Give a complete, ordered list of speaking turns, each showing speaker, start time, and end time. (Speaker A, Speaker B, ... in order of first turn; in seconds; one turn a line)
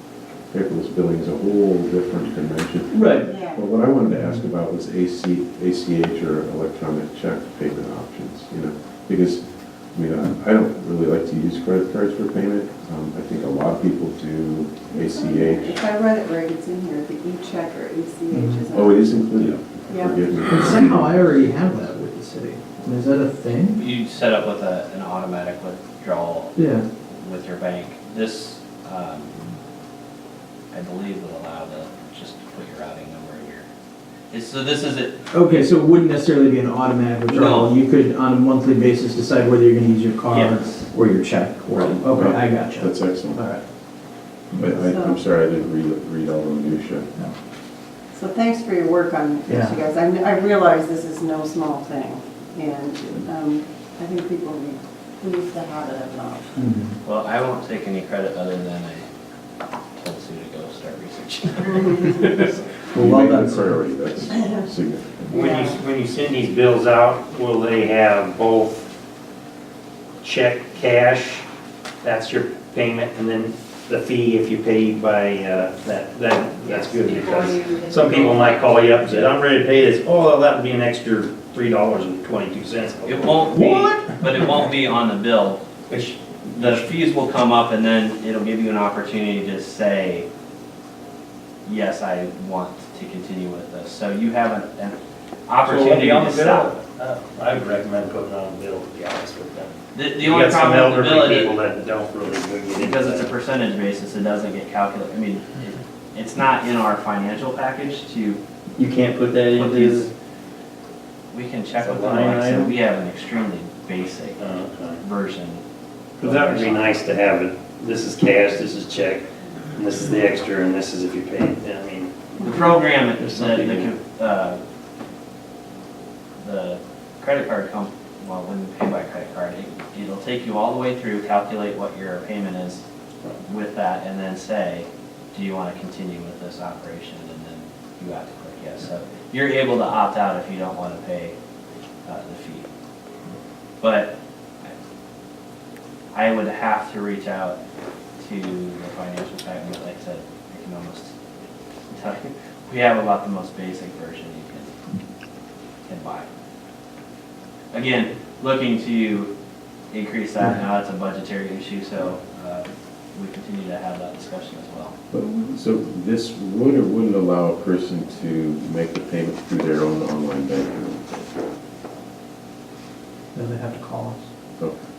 Speaker A: 0.5-9.4
Speaker B: 2.9-3.3
Speaker C: 3.2-3.6
Speaker A: 9.9-15.8
Speaker C: 14.9-19.3
Speaker B: 18.3-18.6
Speaker A: 18.7-21.2
Speaker C: 19.9-20.4
Speaker B: 20.4-23.8
Speaker D: 23.8-26.5
Speaker B: 26.6-26.9
Speaker D: 27.1-29.4
Speaker D: 30.7-33.7
Speaker D: 34.3-35.7
Speaker B: 35.3-43.6
Speaker D: 37.3-37.8
Speaker D: 40.3-40.9
Speaker D: 41.7-42.0
Speaker A: 42.1-43.4
Speaker A: 44.5-47.1
Speaker C: 44.7-45.2
Speaker C: 48.1-56.6
Speaker B: 49.5-49.8
Speaker B: 56.6-57.0
Speaker D: 57.0-59.1
Speaker D: 60.0-62.6
Speaker A: 62.9-65.5
Speaker B: 62.9-63.8
Speaker C: 65.3-65.8
Speaker E: 65.3-68.9
Speaker E: 70.2-71.4
Speaker E: 72.0-84.4
Speaker C: 76.6-79.1
Speaker D: 83.0-85.6
Speaker E: 85.9-86.9
Speaker D: 86.5-90.3
Speaker D: 91.7-96.8
Speaker E: 95.7-103.3
Speaker D: 99.9-101.6
Speaker D: 102.8-108.4
Speaker E: 108.8-110.1
Speaker D: 109.5-110.1
Speaker D: 111.3-114.5
Speaker E: 111.8-112.7
Speaker E: 114.4-115.0
Speaker D: 115.0-115.6
Speaker D: 116.2-117.0
Speaker E: 116.2-122.1
Speaker D: 122.4-124.6
Speaker E: 123.2-124.0
Speaker D: 126.4-132.8
Speaker D: 133.4-141.3
Speaker D: 142.1-142.7
Speaker D: 143.8-144.7
Speaker D: 146.1-147.6
Speaker D: 148.2-151.1
Speaker D: 151.9-154.7
Speaker D: 155.8-156.3
Speaker D: 157.7-159.3
Speaker D: 159.9-165.0
Speaker A: 165.1-171.3
Speaker B: 173.3-174.2